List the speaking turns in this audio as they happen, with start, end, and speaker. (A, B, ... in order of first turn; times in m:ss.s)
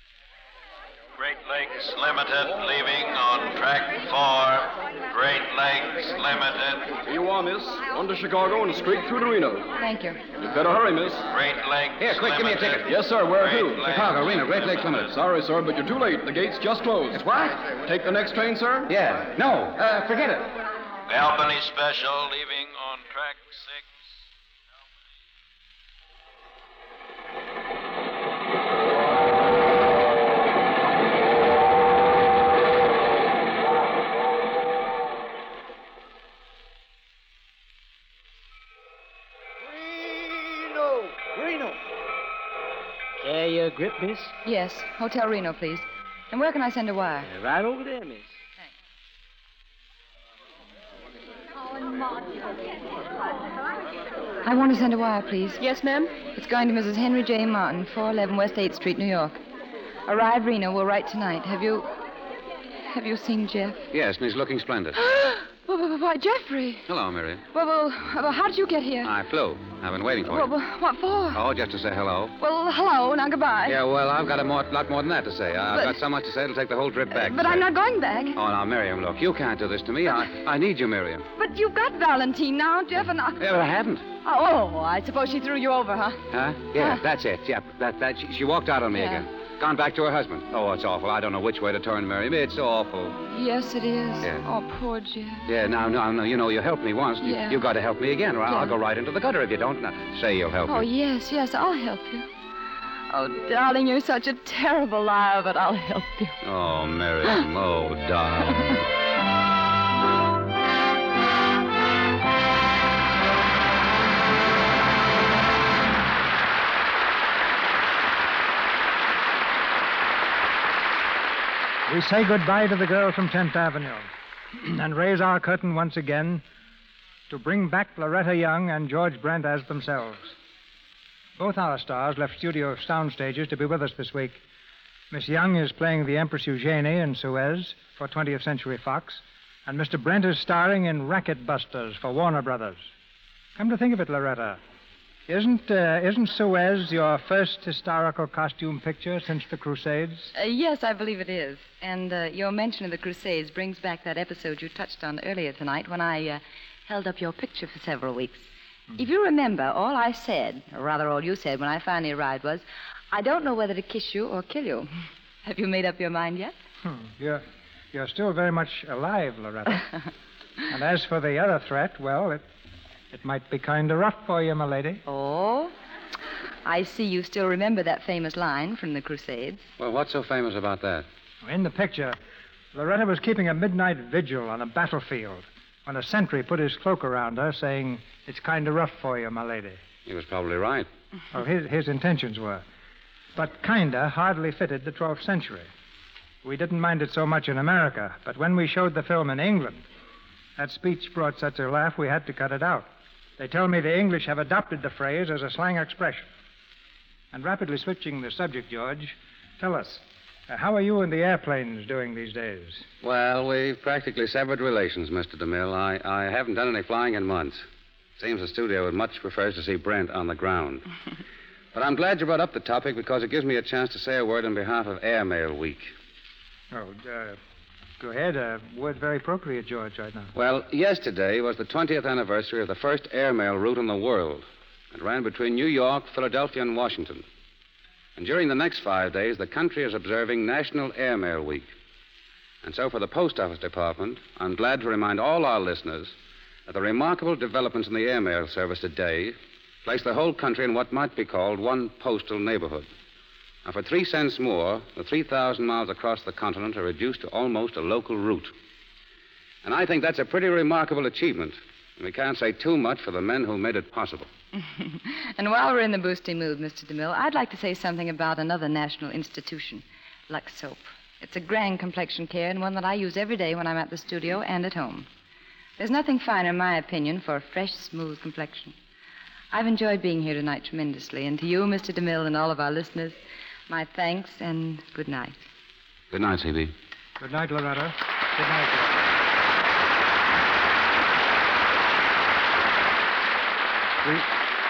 0:01.2-0:06.9 A
0:07.1-0:09.7 B
0:09.8-0:10.2 C
0:10.4-0:11.3 B
0:11.3-0:15.0 A
0:12.0-0:12.9 D
0:12.8-0:14.0 B
0:13.8-0:15.1 D
0:15.0-0:17.2 B
0:17.1-0:17.6 D
0:17.8-0:18.9 B
0:18.9-0:20.5 D
0:21.1-0:23.9 A
0:41.3-0:41.7 E
0:43.2-0:44.3 E
0:44.4-0:47.3 C
0:47.3-0:48.2 E
0:54.4-0:55.6 C
0:56.2-0:59.4 C
1:00.1-1:01.9 C
1:02.9-1:03.9 C
1:03.9-1:05.0 D
1:04.9-1:06.8 C
1:06.9-1:07.4 D
1:07.5-1:09.1 C
1:09.0-1:10.5 D
1:10.2-1:11.4 C
1:11.3-1:12.3 D
1:12.4-1:13.8 C
1:13.6-1:17.6 D
1:15.7-1:16.0 C
1:17.1-1:18.4 C
1:18.3-1:21.3 D
1:21.4-1:23.4 C
1:23.4-1:24.0 D
1:24.2-1:26.2 C
1:26.3-1:33.2 D
1:26.8-1:27.0 C
1:28.9-1:29.2 C
1:33.3-1:35.4 C
1:35.4-1:40.9 D
1:37.2-1:37.6 C
1:38.5-1:38.7 C
1:40.7-1:42.3 C
1:43.1-1:46.4 C
1:46.4-1:48.8 D
2:01.9-2:06.4 F
2:07.3-2:10.4 F
2:11.4-2:14.4 F
2:15.1-2:22.9 F
2:23.6-2:24.6 F
2:25.3-2:30.3 F
2:30.3-2:44.9 C
2:45.4-2:46.5 C
2:46.8-2:49.9 F
2:50.7-2:52.4 F
2:53.1-2:55.0 F
2:55.0-2:55.7 C
2:56.6-2:59.6 C
2:59.8-3:01.0 D
3:01.4-3:02.2 F
3:02.7-3:09.8 F
3:10.0-3:10.9 D
3:11.3-3:12.6 F
3:13.4-3:15.7 F
3:16.4-3:19.8 F
3:20.6-3:26.3 F
3:27.3-3:32.8 F
3:33.0-3:37.6 D
3:38.2-3:40.9 D
3:41.7-3:45.9 D
3:46.7-3:47.4 F
3:48.0-3:50.3 F
3:50.3-3:57.2 D
3:58.2-4:01.7 D
4:02.6-4:06.1 D
4:06.7-4:12.9 D
4:13.6-4:18.5 D
4:19.6-4:24.3 D
4:24.6-4:35.1 C
4:35.8-4:38.7 C
4:39.5-4:45.4 C
4:46.1-4:46.7 D
4:47.2-4:49.1 F
4:54.0-4:54.3 F